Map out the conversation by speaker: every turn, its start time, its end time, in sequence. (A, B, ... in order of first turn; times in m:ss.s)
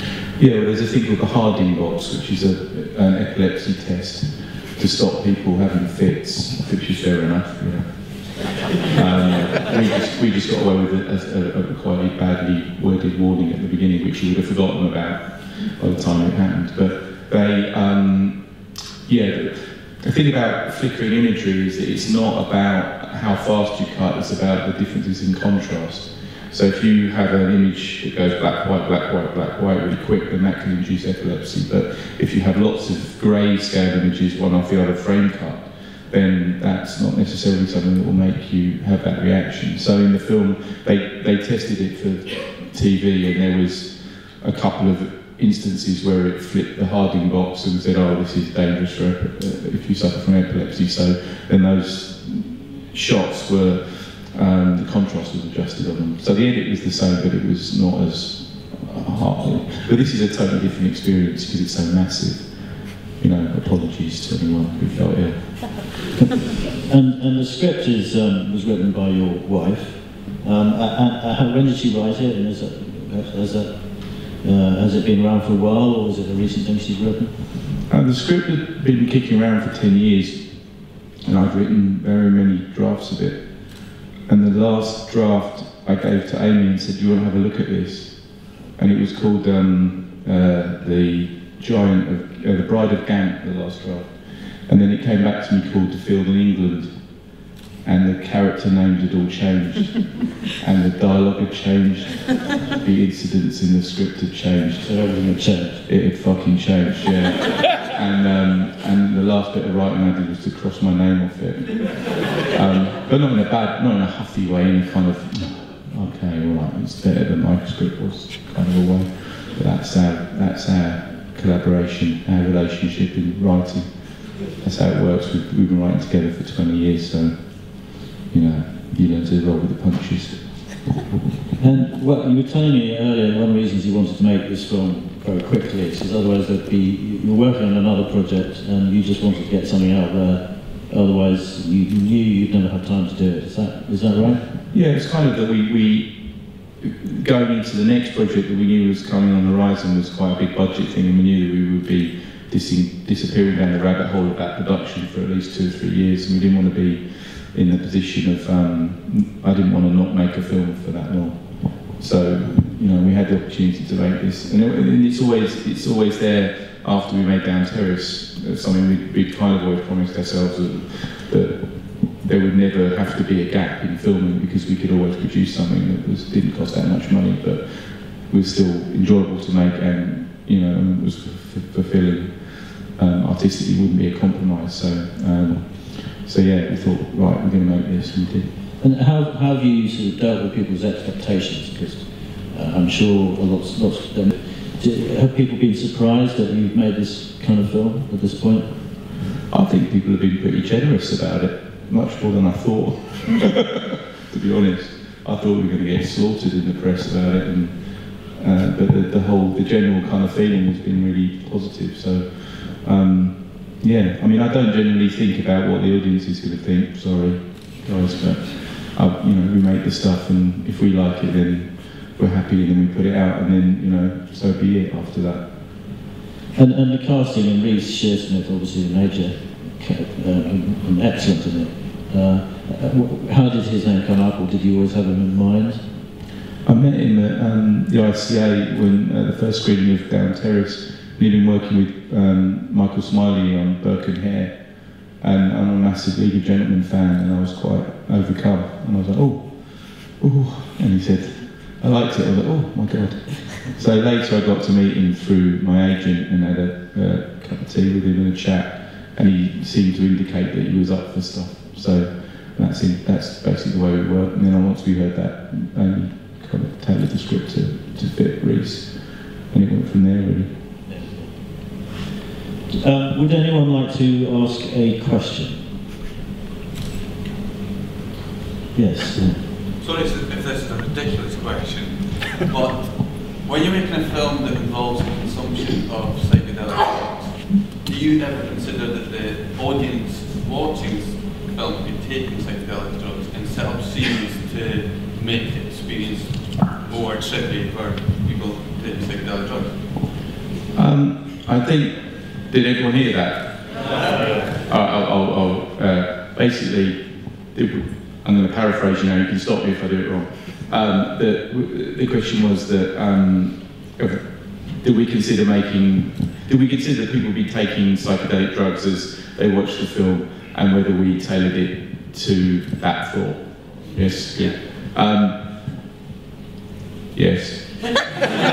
0:00.2-1:05.9 A
1:06.9-1:17.5 B
1:17.9-1:45.1 A
1:44.8-1:45.8 B
1:45.8-2:10.8 A
2:11.6-2:24.5 B
2:24.7-3:08.5 A
3:08.8-3:19.0 B
3:19.5-3:45.5 A
3:46.5-3:56.0 B
3:56.6-4:30.6 A
4:30.9-4:31.6 B
4:32.7-4:35.7 B
4:38.7-4:39.5 B
4:39.8-5:00.1 C
5:00.7-5:04.0 A
5:04.6-5:25.4 A
5:27.1-5:28.1 A